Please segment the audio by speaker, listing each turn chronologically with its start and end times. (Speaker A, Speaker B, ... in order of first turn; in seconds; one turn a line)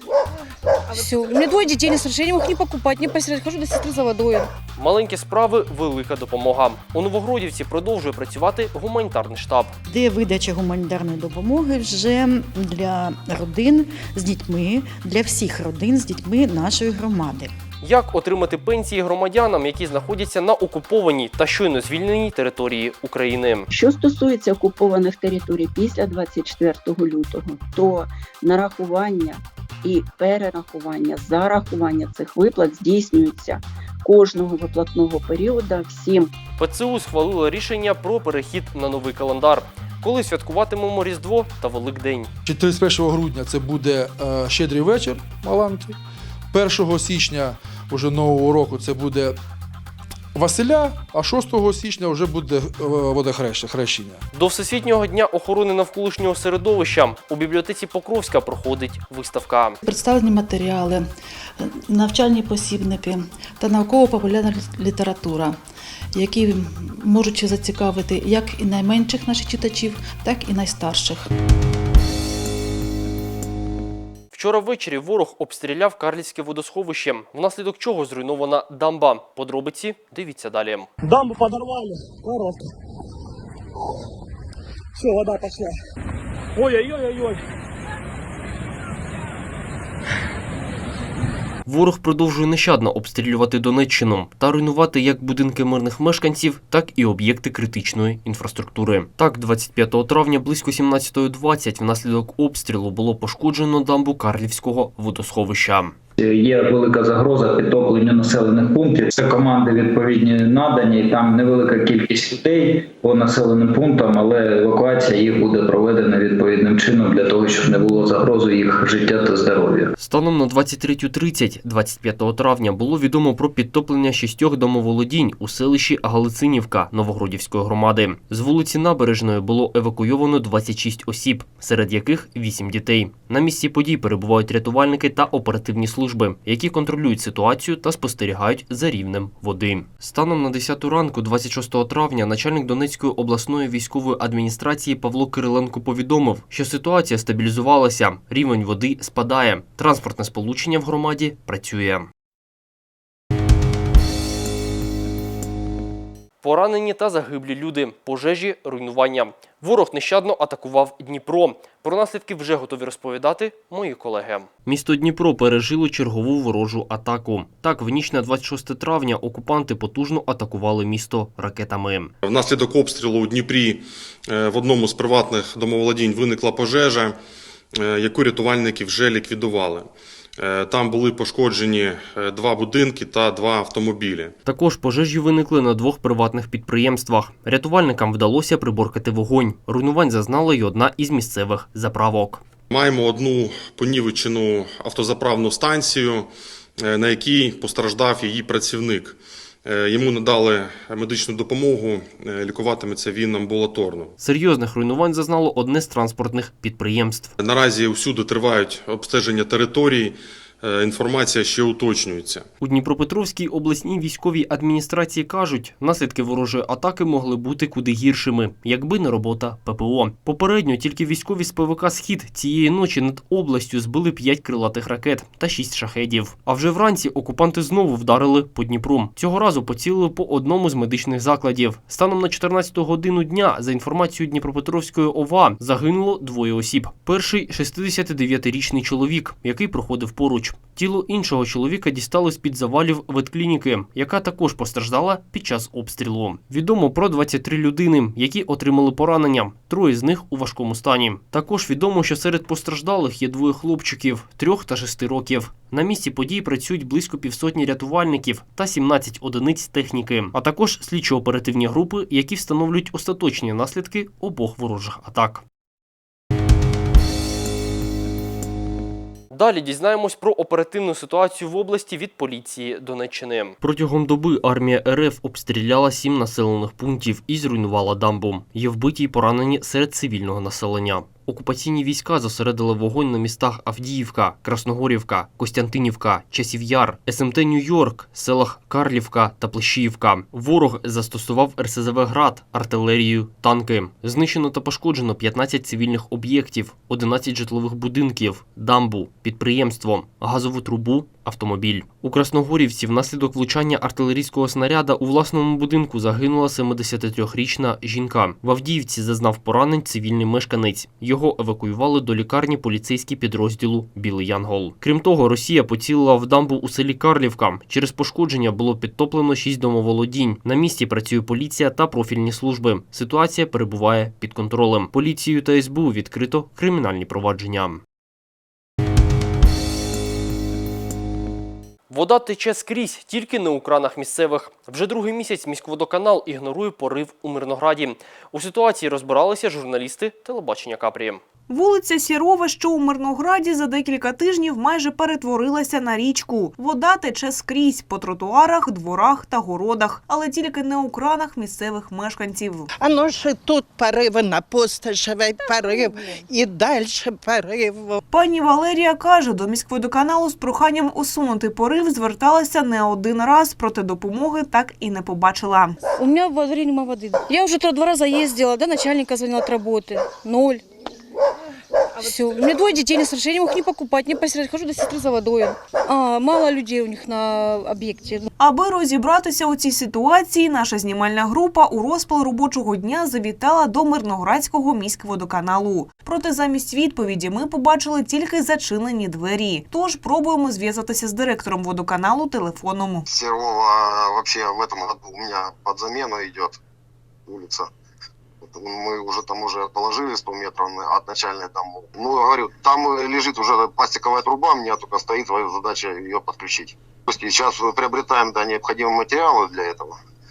Speaker A: 0.9-4.5
Speaker B: 4.8-9.7
Speaker C: 9.9-17.5
Speaker B: 17.8-23.7
Speaker D: 23.7-36.3
Speaker B: 36.6-42.3
Speaker E: 42.5-46.0
Speaker E: 46.5-49.4
Speaker E: 50.4-54.2
Speaker B: 54.3-59.8
Speaker F: 59.8-61.1
Speaker F: 61.6-65.6
Speaker F: 66.1-71.3
Speaker B: 74.3-80.9
Speaker G: 81.0-82.7
Speaker G: 85.0-85.7
Speaker G: 86.6-87.4
Speaker B: 91.7-106.0
Speaker H: 106.2-119.9
Speaker B: 120.0-152.1
Speaker B: 156.4-172.1
Speaker I: 172.2-177.2
Speaker I: 177.8-184.3
Speaker B: 184.4-192.4
Speaker I: 192.7-204.1
Speaker B: 204.2-207.3
Speaker I: 207.4-212.5
Speaker B: 212.6-265.4
Speaker B: 269.3-327.8
Speaker B: 331.9-341.2
Speaker J: 341.5-352.7
Speaker K: 352.8-358.0
Speaker J: 358.1-365.8
Speaker A: 366.0-370.6
Speaker A: 372.0-378.3
Speaker J: 378.4-393.1
Speaker L: 393.1-396.6
Speaker L: 397.3-397.7
Speaker L: 398.4-410.0